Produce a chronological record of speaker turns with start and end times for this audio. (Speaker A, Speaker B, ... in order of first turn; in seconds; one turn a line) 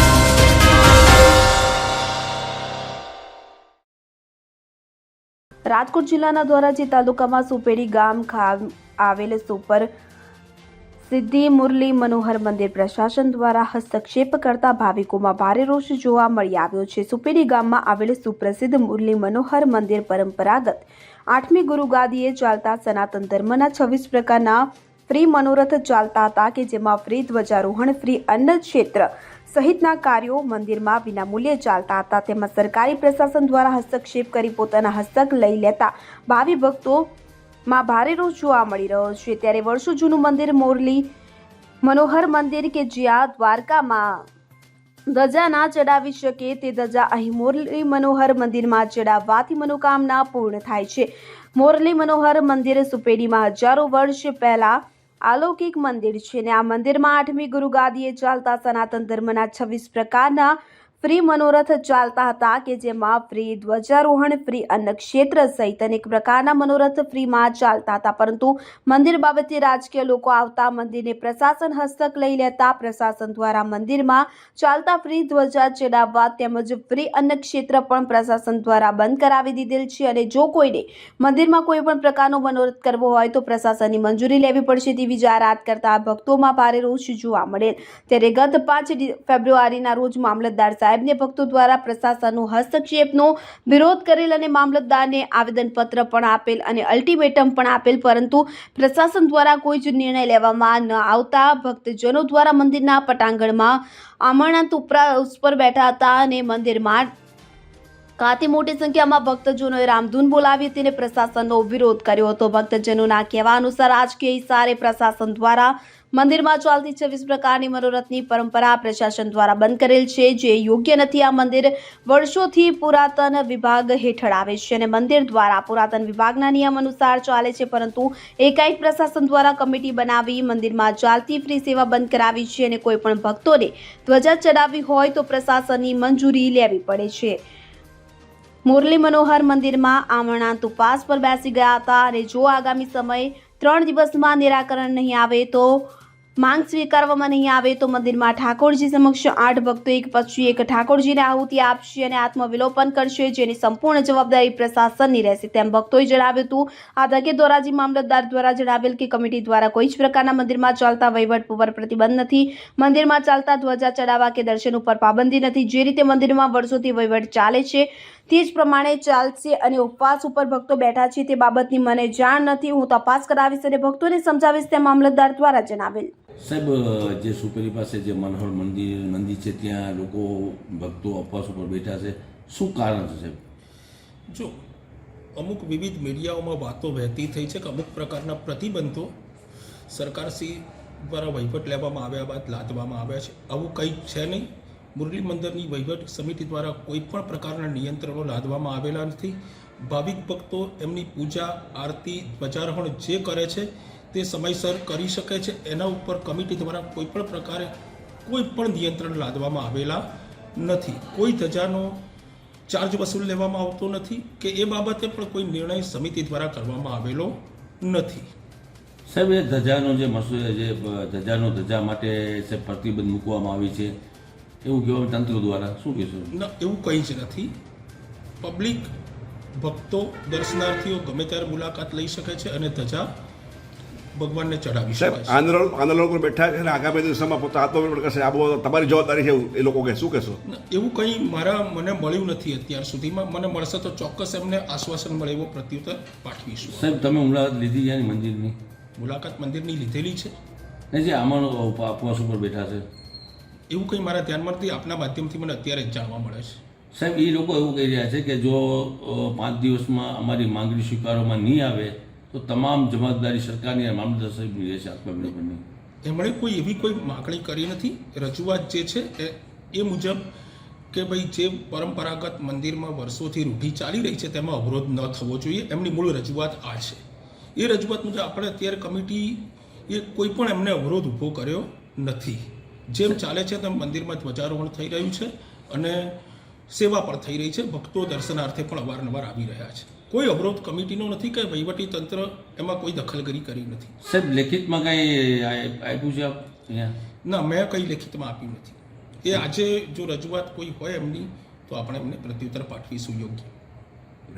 Speaker A: 5.7-9.9
Speaker A: 11.0-37.1
Speaker A: 37.7-41.1
Speaker A: 41.8-44.3
Speaker A: 45.1-107.1
Speaker A: 108.2-137.4
Speaker A: 138.7-176.1
Speaker B: 176.4-183.4
Speaker C: 184.3-184.6
Speaker C: 185.4-189.1
Speaker C: 189.9-207.7
Speaker C: 208.3-210.0
Speaker C: 210.6-212.0
Speaker C: 212.7-218.3
Speaker B: 219.1-224.0
Speaker B: 224.6-226.3
Speaker C: 226.3-227.5
Speaker C: 228.4-228.9
Speaker C: 229.6-233.1
Speaker C: 234.2-235.4
Speaker D: 235.1-240.4
Speaker C: 240.5-247.0
Speaker B: 246.6-248.6
Speaker C: 249.0-250.3
Speaker B: 250.9-252.9
Speaker C: 253.7-256.6
Speaker B: 256.9-265.6
Speaker C: 266.1-270.2
Speaker C: 270.9-277.0
Speaker C: 277.6-286.2
Speaker C: 286.7-293.9
Speaker B: 294.0-296.9
Speaker C: 297.2-303.5